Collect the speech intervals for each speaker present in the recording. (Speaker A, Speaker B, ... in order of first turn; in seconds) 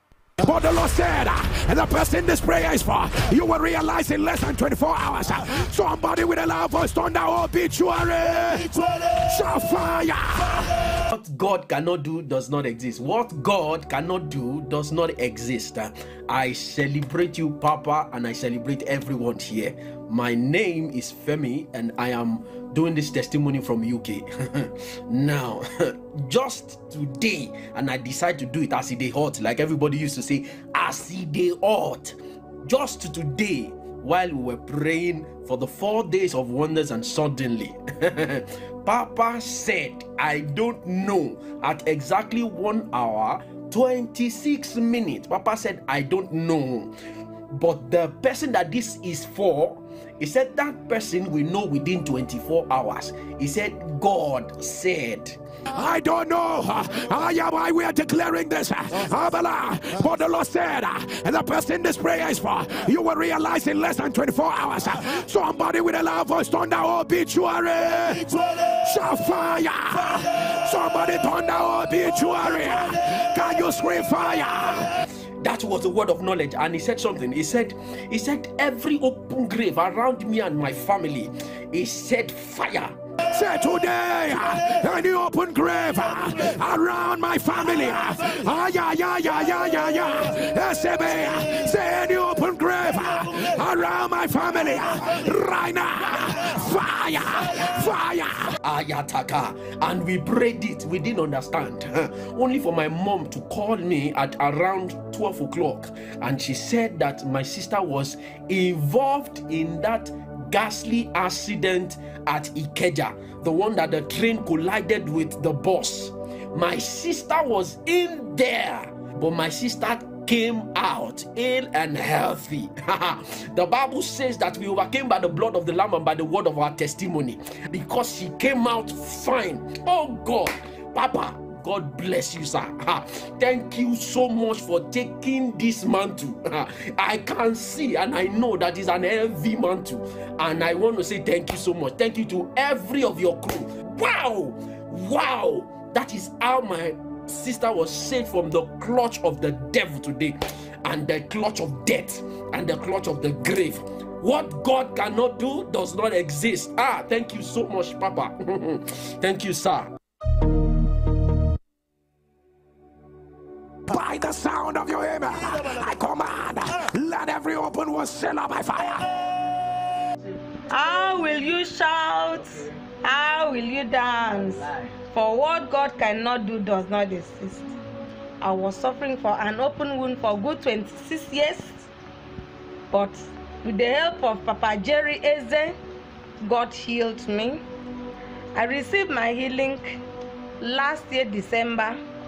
Speaker A: 0.4-10.8, 55.7-74.9, 83.3-98.5, 163.9-169.1
Speaker B: 11.1-46.9, 47.5-55.4, 75.4-83.0, 98.6-159.9
Speaker C: 170.7-177.7, 178.4-181.8, 182.9-185.8, 186.4-187.6, 188.5-190.0, 190.6-192.0